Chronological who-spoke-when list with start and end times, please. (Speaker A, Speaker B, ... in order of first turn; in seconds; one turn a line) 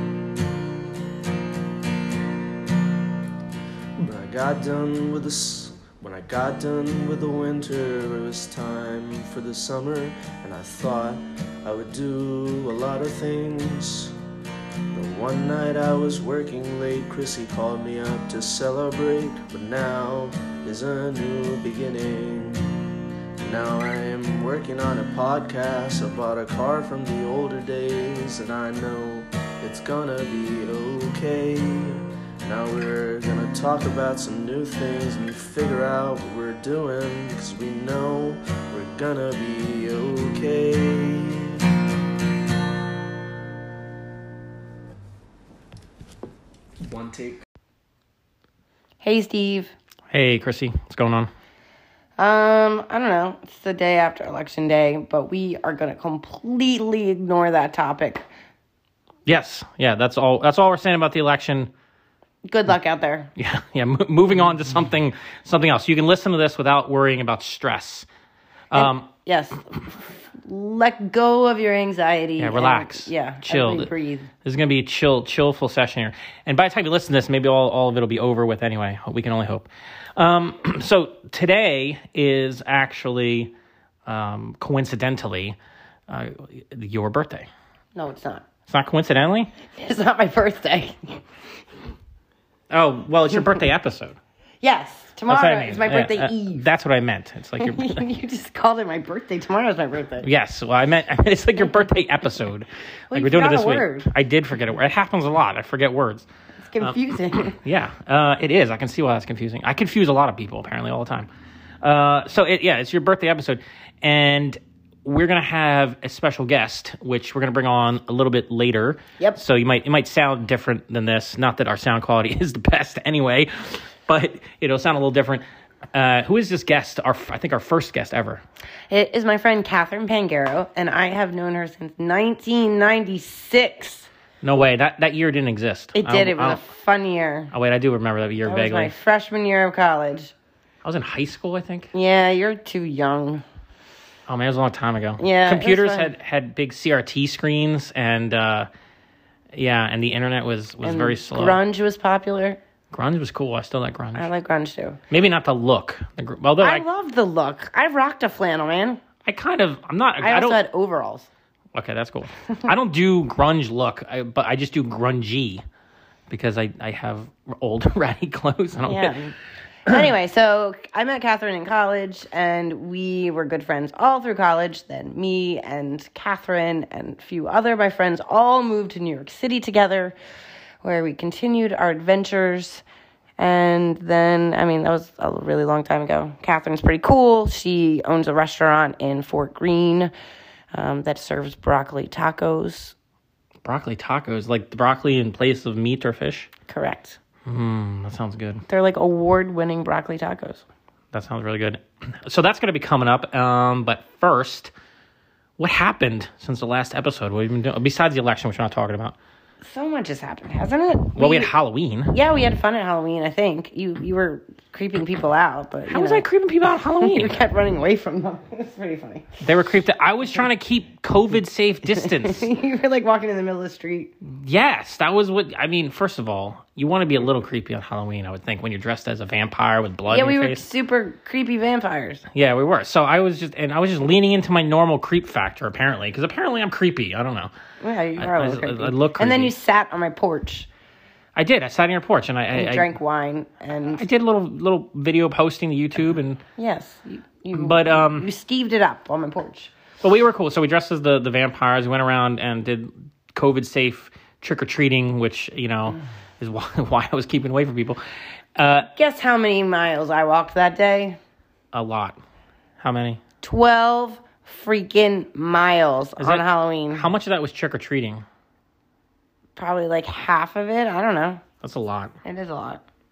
Speaker A: 4.0-14.2
Speaker A: 14.9-22.7
Speaker A: 23.4-41.7
Speaker A: 46.8-47.4
Speaker B: 49.0-49.7
Speaker C: 50.1-51.3
Speaker B: 52.2-58.2
Speaker C: 59.3-61.7
Speaker B: 62.5-63.3
Speaker C: 63.4-68.1
Speaker C: 68.7-69.1
Speaker B: 68.7-74.3
Speaker C: 72.4-73.9
Speaker C: 74.4-83.5
Speaker C: 84.1-85.6
Speaker C: 86.1-87.5
Speaker B: 88.0-88.5
Speaker C: 88.7-89.5
Speaker B: 89.7-91.2
Speaker C: 92.7-94.2
Speaker B: 94.6-96.7
Speaker C: 95.3-98.0
Speaker B: 97.6-100.3
Speaker C: 100.2-106.3
Speaker B: 103.1-104.1
Speaker B: 106.6-107.6
Speaker C: 106.8-111.3
Speaker C: 111.8-128.4
Speaker B: 128.9-134.1
Speaker C: 134.4-136.6
Speaker B: 136.0-137.5
Speaker C: 137.5-138.9
Speaker B: 138.4-140.3
Speaker C: 140.8-141.9
Speaker B: 141.9-143.4
Speaker C: 144.3-148.7
Speaker B: 145.2-146.1
Speaker C: 149.5-151.6
Speaker B: 150.8-152.6
Speaker C: 152.9-154.3
Speaker B: 154.2-155.0
Speaker C: 155.1-156.8
Speaker B: 156.6-159.0
Speaker C: 159.2-160.6
Speaker B: 160.2-161.3
Speaker C: 161.7-165.6
Speaker C: 166.3-169.2
Speaker B: 168.8-169.3
Speaker B: 169.9-180.2
Speaker B: 180.8-182.8
Speaker B: 183.4-190.1
Speaker B: 190.7-192.9
Speaker C: 193.6-196.5
Speaker B: 196.7-197.2
Speaker C: 197.4-198.7
Speaker B: 198.7-200.6
Speaker C: 201.1-204.7
Speaker C: 205.6-209.2
Speaker B: 209.6-211.5
Speaker C: 211.2-212.2
Speaker B: 212.1-216.2
Speaker C: 215.9-217.4
Speaker B: 217.0-219.3
Speaker C: 219.4-222.5
Speaker B: 221.9-224.1
Speaker C: 224.3-230.6
Speaker B: 230.1-232.2
Speaker C: 232.3-237.5
Speaker B: 237.8-240.7
Speaker C: 238.2-239.5
Speaker C: 241.4-242.9
Speaker B: 242.5-244.0
Speaker C: 243.9-246.4
Speaker B: 246.6-249.7
Speaker C: 247.5-248.3
Speaker C: 250.0-258.0
Speaker C: 258.6-258.9
Speaker B: 258.9-261.2
Speaker C: 261.7-262.2
Speaker C: 262.8-263.2
Speaker B: 263.4-267.1
Speaker C: 266.2-268.2
Speaker B: 269.6-271.4
Speaker C: 271.6-272.1
Speaker B: 272.2-272.8